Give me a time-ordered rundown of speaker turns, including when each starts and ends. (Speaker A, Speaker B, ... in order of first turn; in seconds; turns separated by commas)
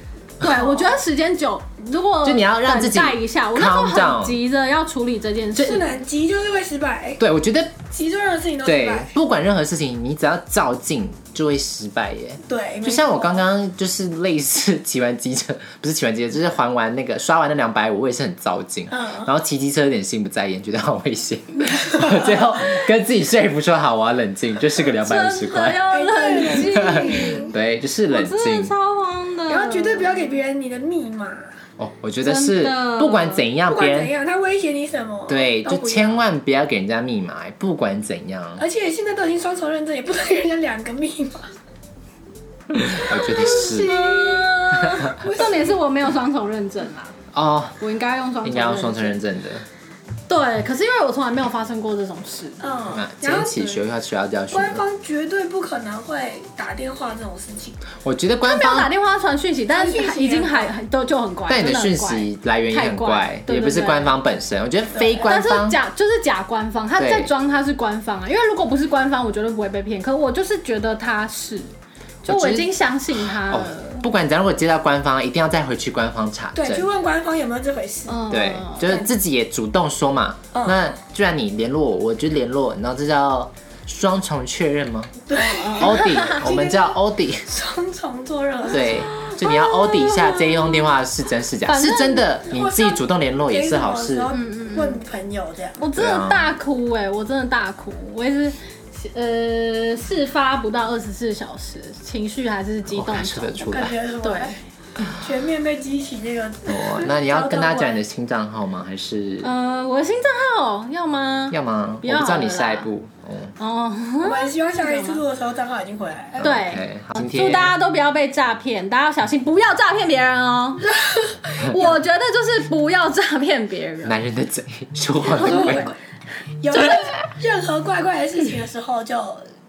Speaker A: 0.4-5.9, Speaker B: 2.2-4.4, Speaker C: 5.6-7.2, Speaker B: 7.2-7.8, Speaker C: 7.9-9.1, Speaker B: 8.6-25.9, Speaker C: 12.5-13.4, Speaker C: 18.9-19.3, Speaker A: 25.0-27.4, Speaker C: 25.9-27.5, Speaker B: 26.7-28.7, Speaker A: 28.1-30.1, Speaker C: 29.5-31.5, Speaker B: 31.8-34.1, Speaker A: 32.2-33.4, Speaker C: 33.7-36.3, Speaker B: 35.3-38.6, Speaker C: 38.6-41.5, Speaker B: 42.7-43.9, Speaker C: 42.9-45.8, Speaker A: 43.8-47.1, Speaker B: 47.3-47.8, Speaker A: 47.8-49.2, Speaker B: 48.4-49.6, Speaker A: 50.3-52.6, Speaker C: 52.6-53.8, Speaker B: 52.9-54.8, Speaker C: 54.5-57.8, Speaker B: 58.0-58.9, Speaker A: 58.5-64.1, Speaker C: 59.7-60.7, Speaker B: 61.5-65.8, Speaker A: 65.2-71.7, Speaker B: 67.0-67.3, Speaker A: 72.2-74.0, Speaker B: 72.2-76.9, Speaker C: 76.5-78.2, Speaker A: 78.1-79.1, Speaker B: 78.3-85.2, Speaker C: 80.5-80.9, Speaker C: 85.3-89.0, Speaker A: 85.5-86.4, Speaker B: 85.8-87.5, Speaker B: 88.7-94.3, Speaker A: 88.7-90.9, Speaker A: 91.6-92.3, Speaker C: 92.5-95.8, Speaker A: 94.3-95.0, Speaker A: 95.8-104.6, Speaker B: 96.0-96.5, Speaker B: 102.9-104.0, Speaker C: 103.7-108.0, Speaker B: 106.7-109.5, Speaker A: 109.4-112.9, Speaker B: 111.5-113.5, Speaker A: 113.6-115.2, Speaker C: 114.2-116.6, Speaker B: 116.4-117.7, Speaker A: 116.4-120.9, Speaker C: 120.9-121.7, Speaker B: 121.6-121.9, Speaker A: 121.6-124.2, Speaker B: 124.0-125.9, Speaker C: 125.3-126.0, Speaker A: 125.3-125.9, Speaker C: 126.6-129.4, Speaker A: 126.7-127.1